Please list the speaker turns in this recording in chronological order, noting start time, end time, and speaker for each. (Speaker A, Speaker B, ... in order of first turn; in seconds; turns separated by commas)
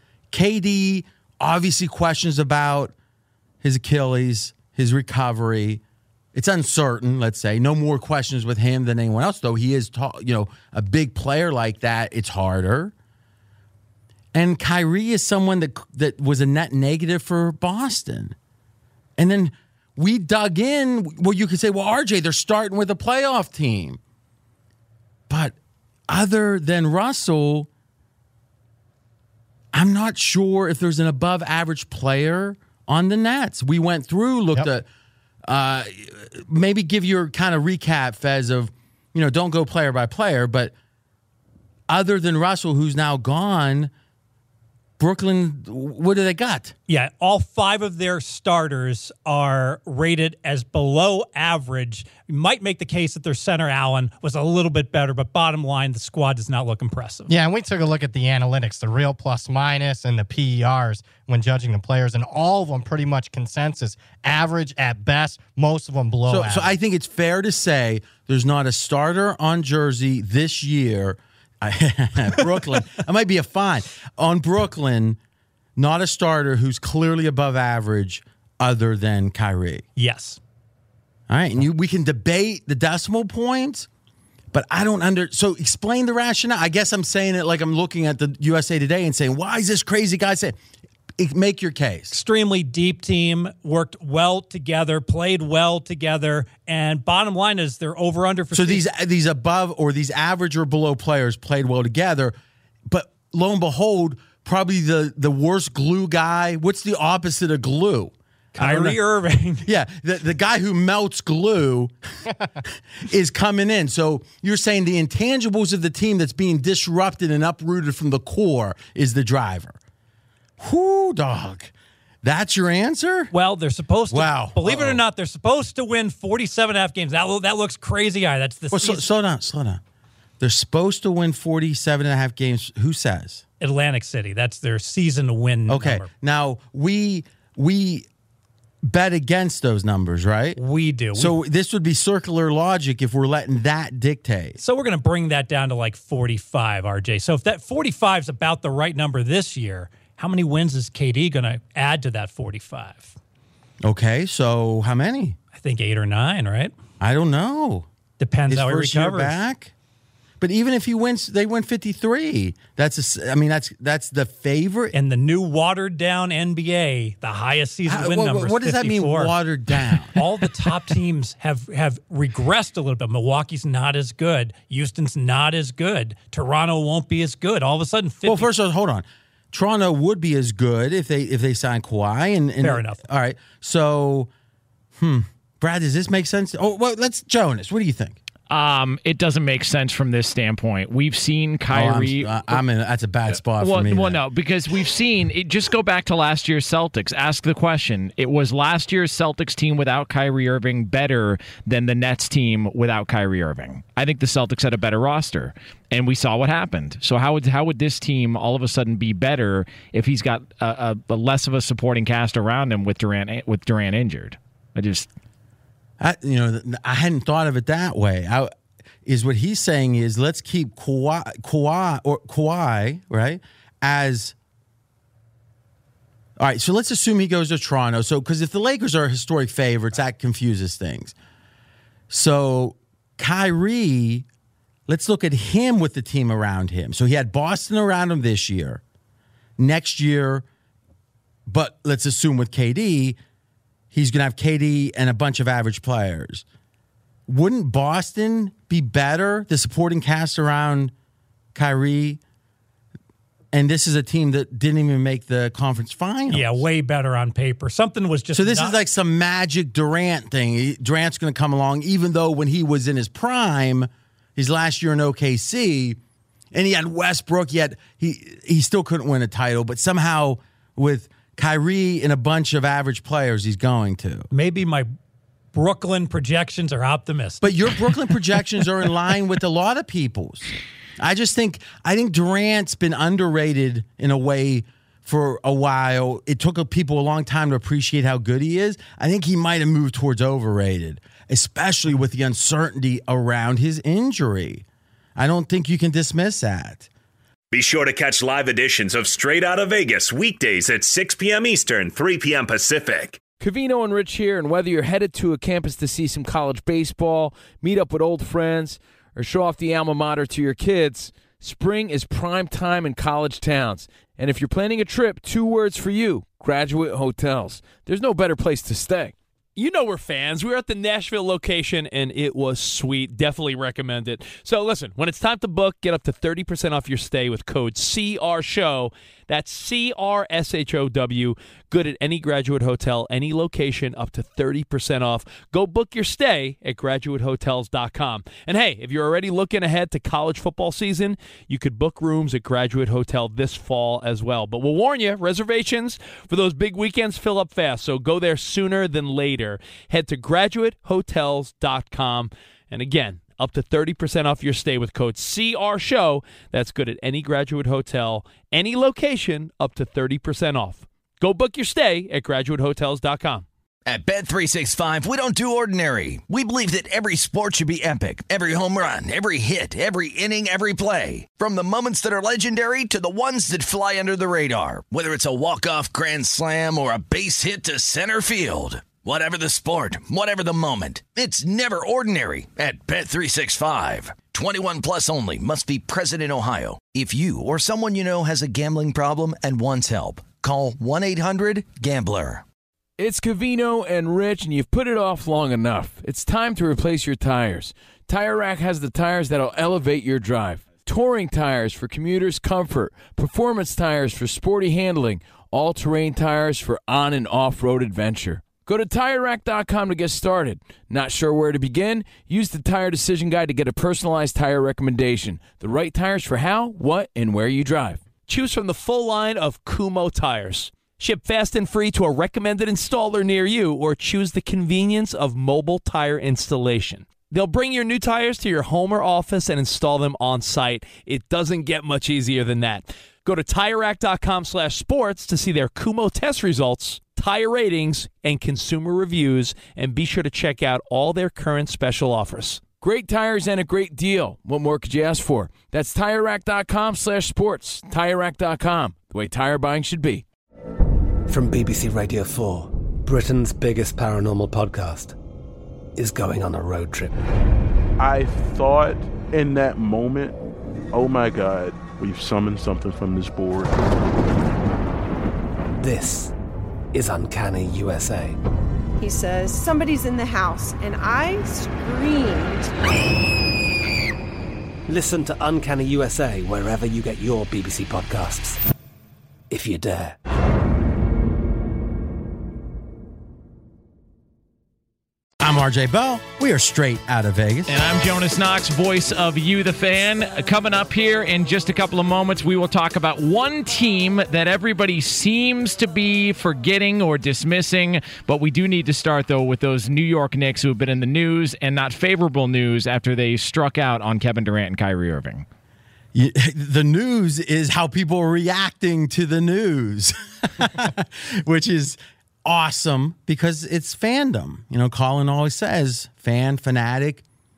Speaker A: 0.3-2.9, Speaker A: 3.6-5.8, Speaker A: 6.3-12.9, Speaker A: 14.3-18.4, Speaker A: 19.2-24.0, Speaker A: 25.3-25.6, Speaker A: 26.1-27.7, Speaker A: 29.7-34.9, Speaker A: 35.5-40.7, Speaker A: 41.9-43.9, Speaker A: 45.0-46.7, Speaker B: 46.9-57.3, Speaker C: 57.3-66.7, Speaker A: 66.3-75.2, Speaker A: 75.8-79.8, Speaker B: 80.0-80.4, Speaker A: 81.3-83.9, Speaker A: 84.5-90.5, Speaker A: 91.2-92.2, Speaker B: 92.1-98.8, Speaker A: 98.5-102.3, Speaker A: 102.9-109.0, Speaker B: 108.5-109.7, Speaker A: 109.6-111.9, Speaker A: 112.6-119.8, Speaker A: 120.6-121.7, Speaker A: 122.2-123.3, Speaker B: 123.3-129.1, Speaker A: 124.1-125.0, Speaker A: 128.7-129.8, Speaker A: 130.4-133.4, Speaker B: 133.6-136.1, Speaker A: 135.7-138.1, Speaker A: 138.8-140.6, Speaker B: 140.6-141.3, Speaker A: 141.1-144.6, Speaker B: 144.6-153.1, Speaker A: 153.8-155.3, Speaker B: 155.5-156.7, Speaker A: 157.0-157.9, Speaker B: 158.2-159.4, Speaker A: 158.5-159.7, Speaker A: 160.4-164.9, Speaker B: 164.9-178.5, Speaker A: 167.8-170.2, Speaker A: 178.2-184.3, Speaker B: 182.6-183.0, Speaker A: 185.0-188.2, Speaker D: 188.5-192.6, Speaker A: 191.7-194.2, Speaker D: 193.6-215.1, Speaker A: 216.0-218.5, Speaker A: 219.0-224.3, Speaker A: 226.4-231.1, Speaker A: 232.1-234.2, Speaker A: 234.9-238.8, Speaker A: 239.6-240.4, Speaker A: 241.5-243.2, Speaker A: 243.9-246.4, Speaker A: 247.3-250.9, Speaker A: 251.5-252.2, Speaker A: 253.5-256.6, Speaker B: 256.3-258.8, Speaker A: 258.3-266.0, Speaker A: 266.5-274.3, Speaker B: 274.3-274.9, Speaker B: 275.5-277.6, Speaker A: 277.4-294.6, Speaker A: 295.1-296.9, Speaker E: 297.5-303.2, Speaker F: 303.4-319.1, Speaker G: 319.6-363.4, Speaker H: 363.9-392.4, Speaker F: 393.0-418.0, Speaker G: 418.3-442.6, Speaker F: 442.8-450.2, Speaker I: 451.3-455.1, Speaker I: 455.9-457.1, Speaker J: 458.0-460.4, Speaker J: 460.9-463.8, Speaker I: 465.8-466.3, Speaker I: 466.9-468.4, Speaker K: 469.0-472.7, Speaker I: 474.9-478.6, Speaker I: 479.5-480.1, Speaker A: 485.4-487.7, Speaker D: 487.7-505.4, Speaker A: 506.1-517.2